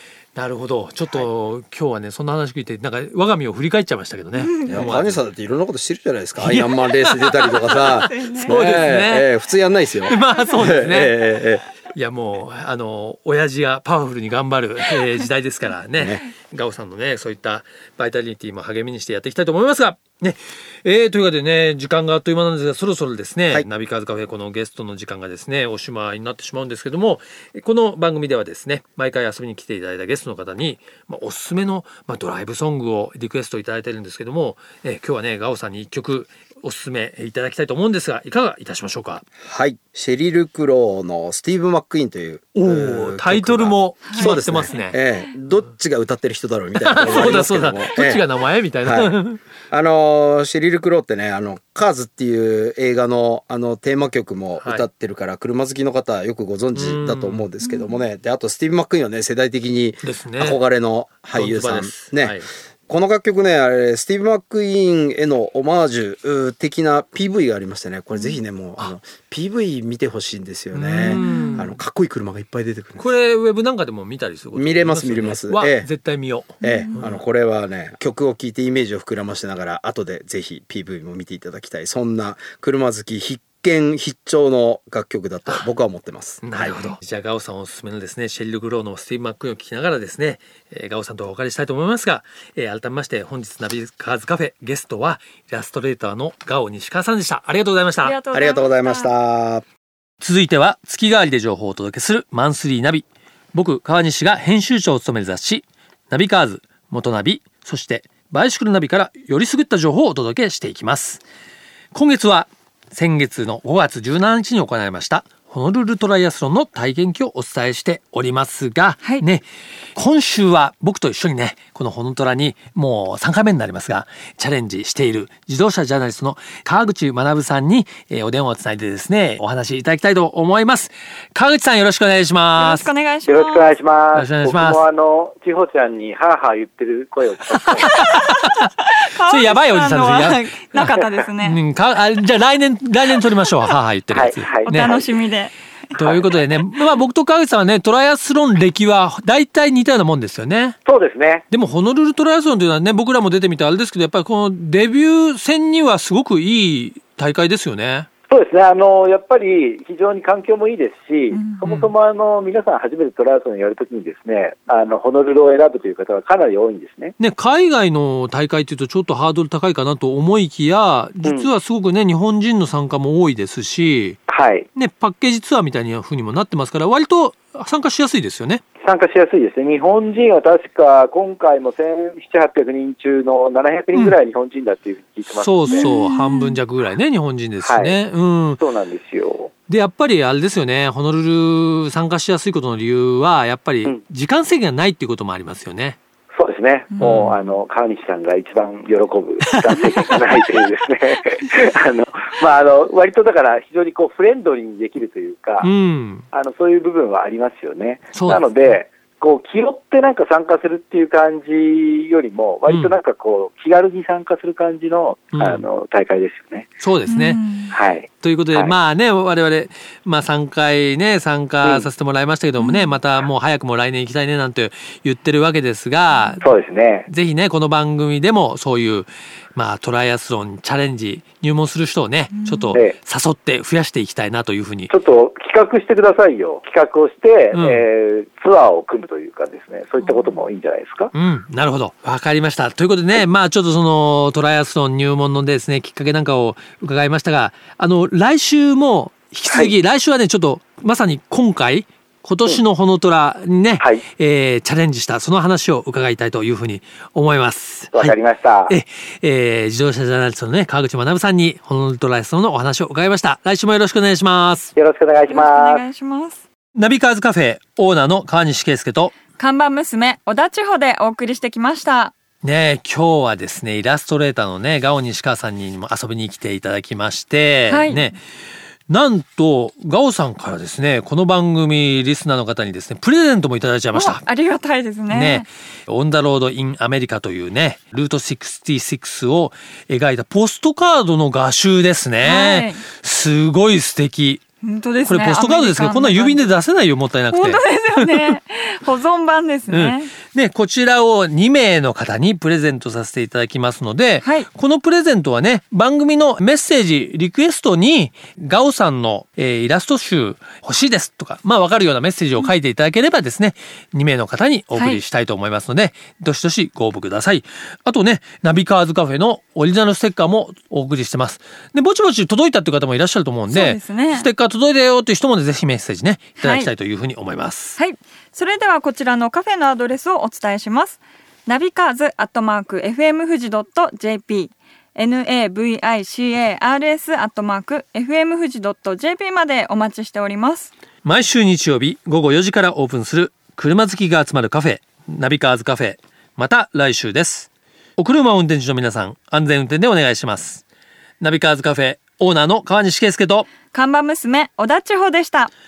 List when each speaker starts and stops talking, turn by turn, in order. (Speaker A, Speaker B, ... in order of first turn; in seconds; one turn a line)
Speaker A: 0.3-5.2
Speaker B: 4.4-4.8
Speaker C: 4.7-11.7
Speaker A: 6.4-9.3
Speaker B: 8.0-8.5
Speaker A: 10.0-11.3
Speaker A: 11.9-39.3
Speaker C: 39.4-48.2
Speaker A: 42.5-45.0
Speaker B: 44.1-44.3
Speaker A: 46.8-49.4
Speaker C: 48.8-49.2
Speaker C: 49.7-62.4
Speaker A: 54.6-54.9
Speaker A: 56.7-57.5
Speaker B: 57.6-57.9
Speaker A: 60.0-60.6
Speaker A: 61.3-62.5
Speaker C: 62.9-73.1
Speaker A: 70.7-71.8
Speaker B: 71.1-71.7
Speaker A: 73.0-77.2
Speaker C: 74.5-75.9
Speaker C: 76.6-86.9
Speaker B: 76.6-76.9
Speaker A: 86.4-98.2
Speaker B: 98.0-99.1
Speaker C: 98.3-99.6
Speaker A: 100.2-111.2
Speaker A: 111.9-119.4
Speaker A: 120.0-132.9
Speaker B: 132.6-133.7
Speaker D: 133.3-138.1
Speaker A: 134.1-134.8
Speaker A: 137.5-140.5
Speaker B: 137.9-141.6
Speaker D: 140.8-141.1
Speaker A: 141.4-145.0
Speaker D: 144.1-145.1
Speaker B: 144.7-145.5
Speaker A: 145.9-150.8
Speaker D: 146.0-146.4
Speaker D: 150.9-151.4
Speaker A: 151.5-158.1
Speaker D: 158.3-167.2
Speaker B: 161.3-161.6
Speaker A: 161.7-161.9
Speaker A: 167.2-174.2
Speaker D: 174.3-174.7
Speaker A: 174.8-178.6
Speaker D: 178.8-185.9
Speaker A: 185.3-188.6
Speaker B: 185.7-186.6
Speaker D: 187.6-188.0
Speaker D: 188.6-189.5
Speaker A: 189.7-196.0
Speaker D: 196.3-205.7
Speaker A: 197.0-197.4
Speaker A: 199.5-200.2
Speaker A: 205.6-206.2
Speaker D: 206.3-216.7
Speaker A: 208.1-208.8
Speaker A: 212.7-213.0
Speaker A: 215.3-215.6
Speaker A: 216.8-217.4
Speaker B: 217.1-217.7
Speaker D: 217.7-218.7
Speaker A: 218.2-226.4
Speaker D: 221.6-221.9
Speaker B: 222.6-222.9
Speaker B: 226.1-226.4
Speaker D: 226.4-227.1
Speaker A: 227.1-234.9
Speaker B: 232.3-232.8
Speaker D: 234.9-241.1
Speaker A: 237.5-237.8
Speaker A: 241.1-264.7
Speaker D: 257.9-258.8
Speaker D: 264.8-265.8
Speaker B: 265.3-266.4
Speaker A: 266.8-269.1
Speaker B: 269.4-272.1
Speaker A: 272.4-278.2
Speaker B: 277.7-278.1
Speaker A: 278.9-284.2
Speaker B: 283.9-285.5
Speaker A: 285.1-294.4
Speaker B: 292.2-292.8
Speaker B: 294.6-296.5
Speaker A: 295.1-298.4
Speaker B: 297.3-300.1
Speaker A: 299.7-327.8
Speaker B: 314.8-315.0
Speaker B: 323.5-324.3
Speaker B: 326.4-326.7
Speaker B: 327.8-340.7
Speaker A: 341.0-350.6
Speaker A: 351.2-353.5
Speaker B: 353.7-355.5